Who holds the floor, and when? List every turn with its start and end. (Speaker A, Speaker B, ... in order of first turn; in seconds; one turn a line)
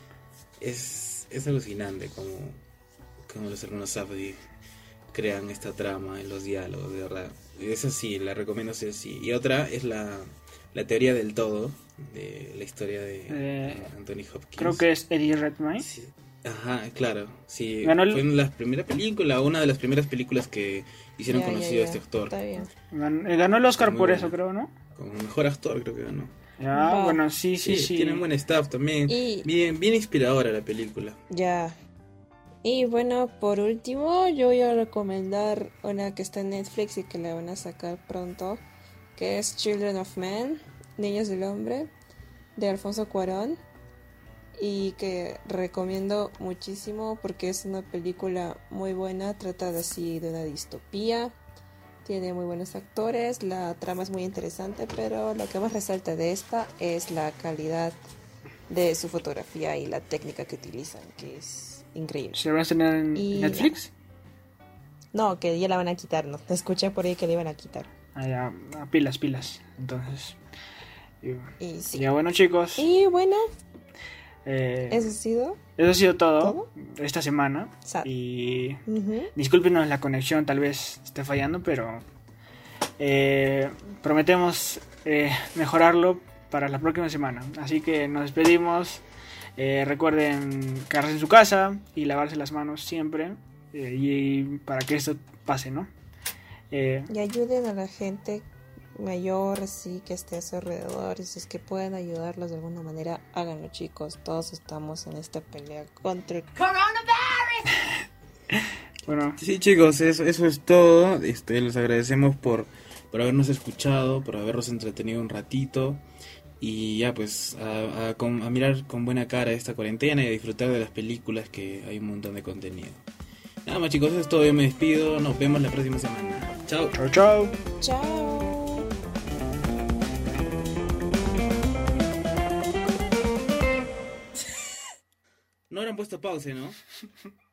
Speaker A: 0.6-2.6
Speaker A: 3.2-4.4
Speaker A: 5.1-14.8
Speaker B: 13.3-13.9
Speaker B: 14.6-15.8
Speaker A: 15.8-22.4
Speaker B: 17.8-18.2
Speaker C: 21.3-22.7
Speaker B: 22.9-24.7
Speaker A: 23.8-24.4
Speaker A: 24.9-26.3
Speaker B: 26.6-28.2
Speaker C: 26.7-27.2
Speaker A: 27.6-31.2
Speaker C: 29.1-29.5
Speaker C: 31.3-31.8
Speaker C: 32.6-38.6
Speaker C: 39.1-41.9
Speaker C: 42.6-43.6
Speaker C: 44.6-51.3
Speaker C: 52.0-58.0
Speaker C: 58.7-62.4
Speaker B: 62.4-63.9
Speaker C: 63.1-63.8
Speaker C: 65.1-67.9
Speaker B: 68.1-70.4
Speaker B: 71.2-72.9
Speaker C: 71.6-72.1
Speaker C: 72.8-73.5
Speaker B: 74.4-75.1
Speaker C: 74.9-75.6
Speaker B: 75.8-78.8
Speaker C: 76.4-76.7
Speaker C: 78.9-79.3
Speaker B: 79.3-82.0
Speaker B: 83.0-89.0
Speaker B: 89.6-95.9
Speaker B: 96.7-97.1
Speaker C: 97.1-106.7
Speaker A: 106.8-107.5
Speaker B: 109.0-109.4
Speaker A: 109.4-116.0
Speaker A: 116.6-123.0
Speaker A: 123.6-127.0
Speaker B: 127.0-127.6
Speaker C: 127.8-128.9
Speaker A: 135.7-136.8